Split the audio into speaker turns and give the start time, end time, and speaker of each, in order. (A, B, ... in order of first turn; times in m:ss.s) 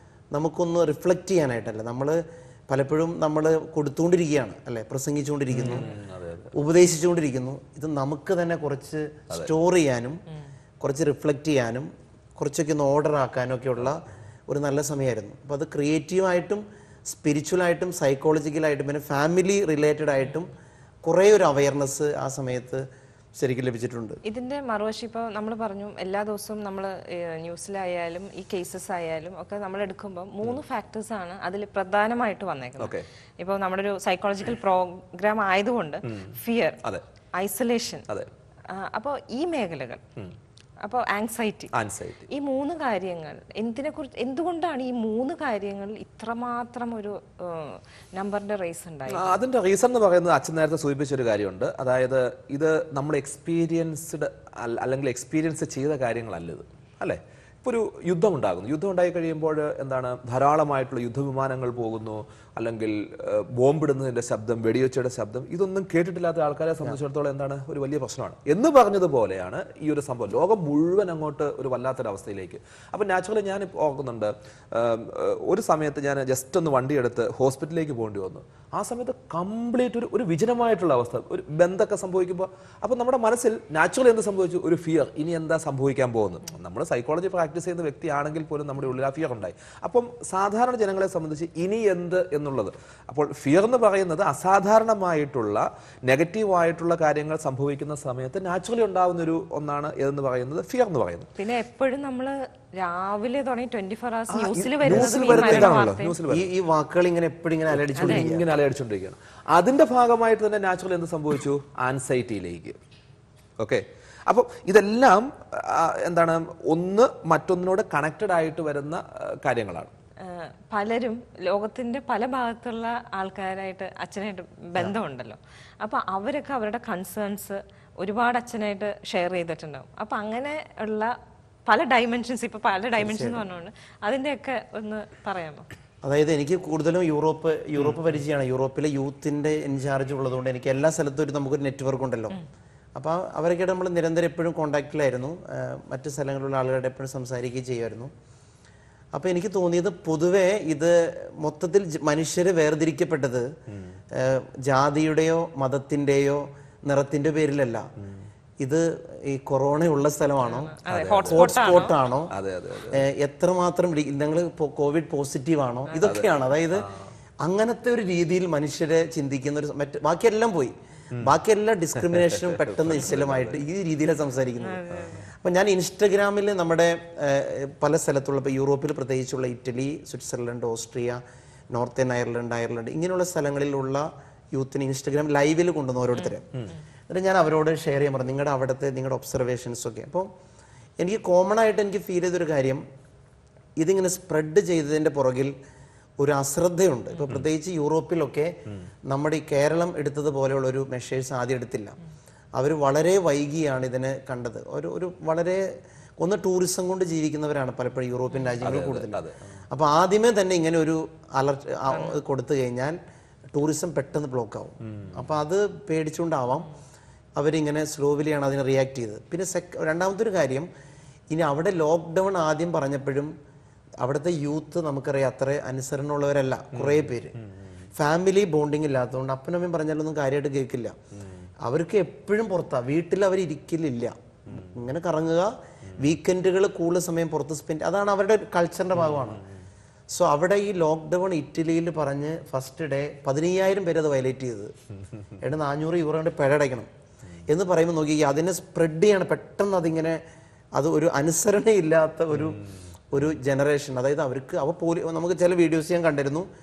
0:00.3-0:05.9 A
0:05.5-0:06.5 B
0:05.6-0:05.9 C
0:06.5-0:10.2 A
0:10.8-0:20.5 A
0:21.0-0:22.8 A
0:23.4-0:24.2 A
0:24.2-0:36.8 C
0:32.8-0:33.0 B
0:36.0-0:37.0 B
0:37.4-0:38.1 C
0:38.7-0:40.0 C
0:40.8-0:41.7 C
0:41.7-0:42.3 B
0:42.3-0:49.4 C
0:49.1-1:41.3 B
1:41.4-1:46.2 C
1:44.3-1:46.5 B
1:44.8-1:48.5 A
1:47.7-1:52.8 B
1:48.0-1:48.2 C
1:53.6-1:59.9 B
2:00.2-2:11.1 C
2:11.7-2:15.7 C
2:13.0-2:13.5 A
2:16.0-2:22.4 A
2:23.0-2:28.1 A
2:29.1-2:33.5 A
2:33.7-2:34.0 B
2:34.1-2:37.9 A
2:38.0-2:38.3 B
2:38.6-2:42.3 A
2:40.5-2:42.0 C
2:40.9-2:43.1 B
2:42.9-2:46.9 A
2:46.0-2:47.1 B
2:47.4-3:06.5 A
2:52.1-2:53.6 B
2:54.6-2:55.3 C
2:54.9-2:55.2 B
3:07.1-3:10.3 A
3:11.0-3:12.8 A
3:13.8-3:15.5 A
3:16.2-3:22.0 A
3:22.6-3:25.6 A
3:26.2-3:33.0 A
3:28.6-3:29.6 B
3:33.5-3:36.7 A
3:34.8-3:35.3 B
3:37.4-3:40.7 A
3:41.3-3:43.3 A
3:44.0-3:47.4 A
3:46.7-3:47.9 B
3:48.0-3:51.0 A
3:51.1-3:51.5 B
3:51.6-3:59.4 A
3:54.5-3:54.8 B
3:59.0-3:59.5 B
4:00.1-4:04.7 A
4:05.4-4:06.9 A
4:07.5-4:10.2 A
4:10.8-4:12.6 A
4:12.4-4:12.7 B
4:13.1-4:16.5 A